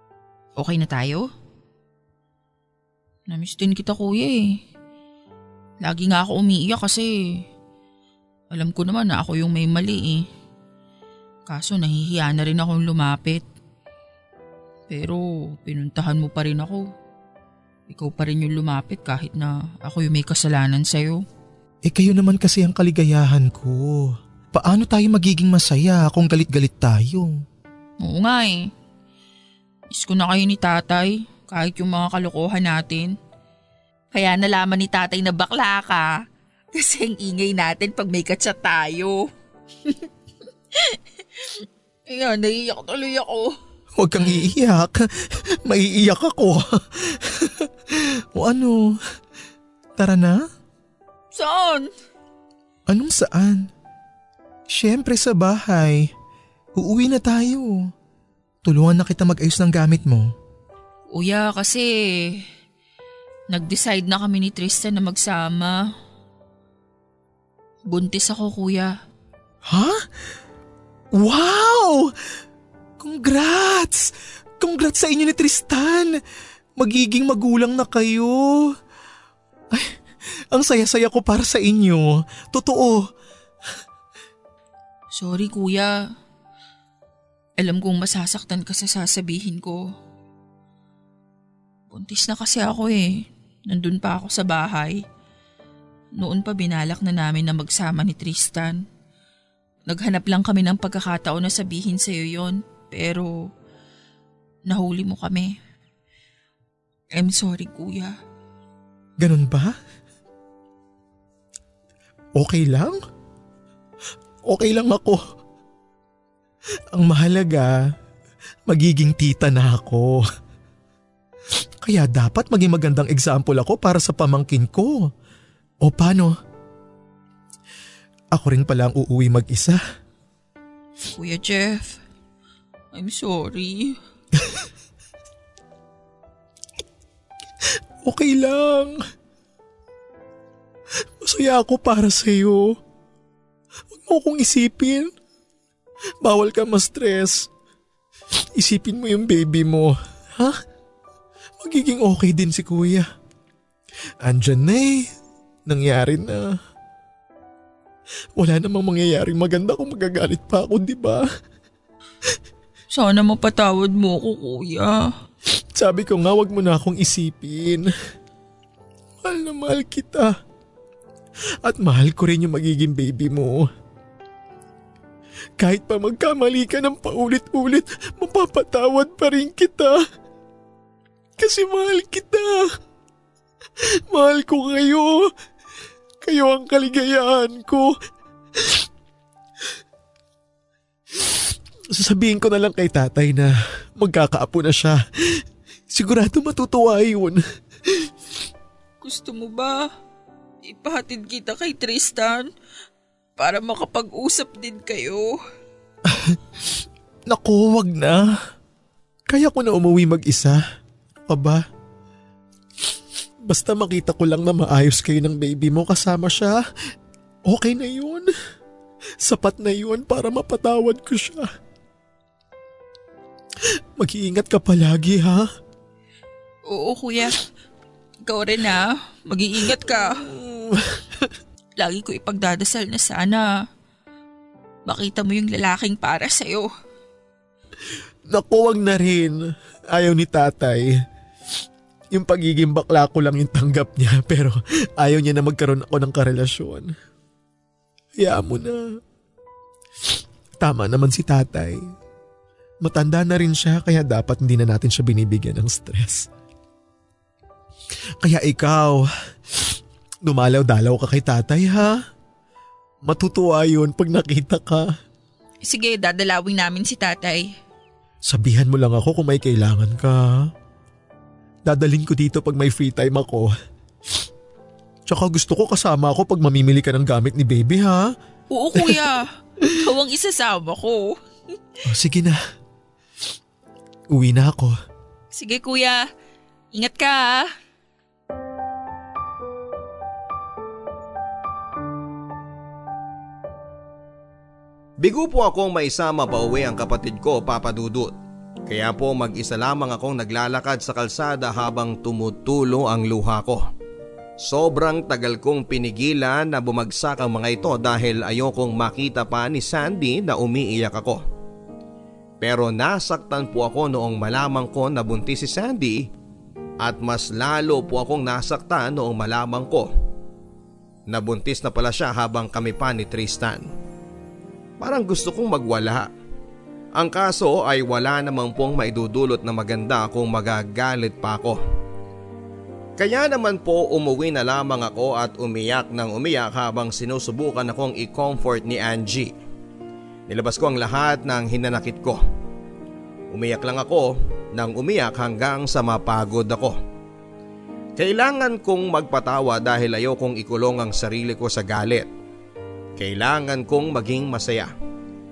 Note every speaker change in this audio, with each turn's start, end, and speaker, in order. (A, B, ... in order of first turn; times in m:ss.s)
0:00.6-0:01.3 A
0:03.3-0:04.6 A
0:05.8-0:07.4 A
0:08.5-0:10.3 A
0:11.5-0:13.4 A
0:14.9-0:16.9 A
0:17.9-0:21.3 A
0:21.9-0:27.3 B
0:28.0-0:28.7 A
0:29.9-0:33.2 A
0:34.1-0:36.1 A
0:36.8-0:39.3 A
0:40.7-0:43.6 A
0:44.0-0:49.0 B
0:50.0-0:50.4 B
0:51.3-0:51.9 A
0:52.9-0:53.7 B
0:54.7-0:56.1 B
0:56.8-0:57.9 B
0:58.6-1:00.3 B
1:01.1-1:02.4 A
1:03.5-1:05.9 A
1:07.9-1:09.0 A
1:09.6-1:10.0 B
1:11.1-1:12.1 B
1:13.0-1:16.2 B
1:16.8-1:18.8 B
1:20.5-1:23.1 B
1:25.2-1:26.1 A
1:27.6-1:29.9 A
1:31.9-1:35.0 A
1:36.2-1:38.8 A
1:39.9-1:43.3 A
1:44.7-1:45.6 A
1:47.1-1:48.2 A
1:49.2-1:49.8 B
1:52.4-1:53.0 B
1:54.5-1:55.2 B
1:56.9-1:57.8 B
1:58.7-2:00.2 B
2:01.8-2:05.1 B
2:05.8-2:06.4 B
2:08.3-2:09.8 B
2:11.1-2:12.0 A
2:12.9-2:14.0 A
2:14.4-2:14.6 B
2:18.0-2:19.0 B
2:21.2-2:22.8 B
2:23.9-2:25.1 B
2:26.2-2:27.5 B
2:28.6-2:30.6 B
2:31.6-2:33.1 B
2:34.2-2:35.1 B
2:35.7-2:36.5 B
2:38.4-2:41.3 B
2:42.9-2:45.1 A
2:45.8-2:47.9 B
2:49.2-2:50.4 B
2:51.6-2:53.6 B
2:55.6-3:00.0 B
3:01.4-3:02.6 B
3:04.1-3:05.2 B
3:06.2-3:07.9 B
3:12.0-3:15.0 B
3:15.9-3:17.4 B
3:19.0-3:19.9 A
3:20.6-3:22.5 A
3:23.4-3:25.4 A
3:26.1-3:26.4 B
3:27.3-3:28.4 B
3:29.3-3:30.6 B
3:31.3-3:31.6 B
3:33.5-3:36.6 B
3:37.5-3:38.3 B
3:39.2-3:41.5 B
3:44.0-3:45.5 B
3:46.7-3:47.4 A
3:48.2-3:50.3 A
3:51.8-3:53.6 A
3:54.9-3:56.7 A
3:58.3-3:59.4 B
3:59.9-4:00.9 B
4:02.1-4:06.9 B
4:08.2-4:08.8 B
4:10.6-4:11.8 B
4:12.8-4:16.3 B
4:18.2-4:19.0 B
4:20.2-4:22.0 B
4:23.0-4:24.9 B
4:25.6-4:27.6 A
4:28.2-4:30.5 B
4:31.7-4:33.5 B
4:35.1-4:38.1 B
4:38.5-4:41.2 A
4:41.8-4:42.4 B
4:44.1-4:44.8 B
4:45.3-4:46.1 A
4:46.7-4:47.5 A
4:55.0-4:58.2 C
4:58.7-5:03.6 C
5:04.4-5:11.2 C
5:12.4-5:16.0 C
5:16.8-5:19.9 C
5:21.1-5:23.7 C
5:24.8-5:26.1 C
5:27.0-5:31.6 C
5:33.0-5:39.3 C
5:40.3-5:42.2 C
5:43.3-5:46.8 C
5:48.0-5:52.1 C
5:53.0-5:54.7 C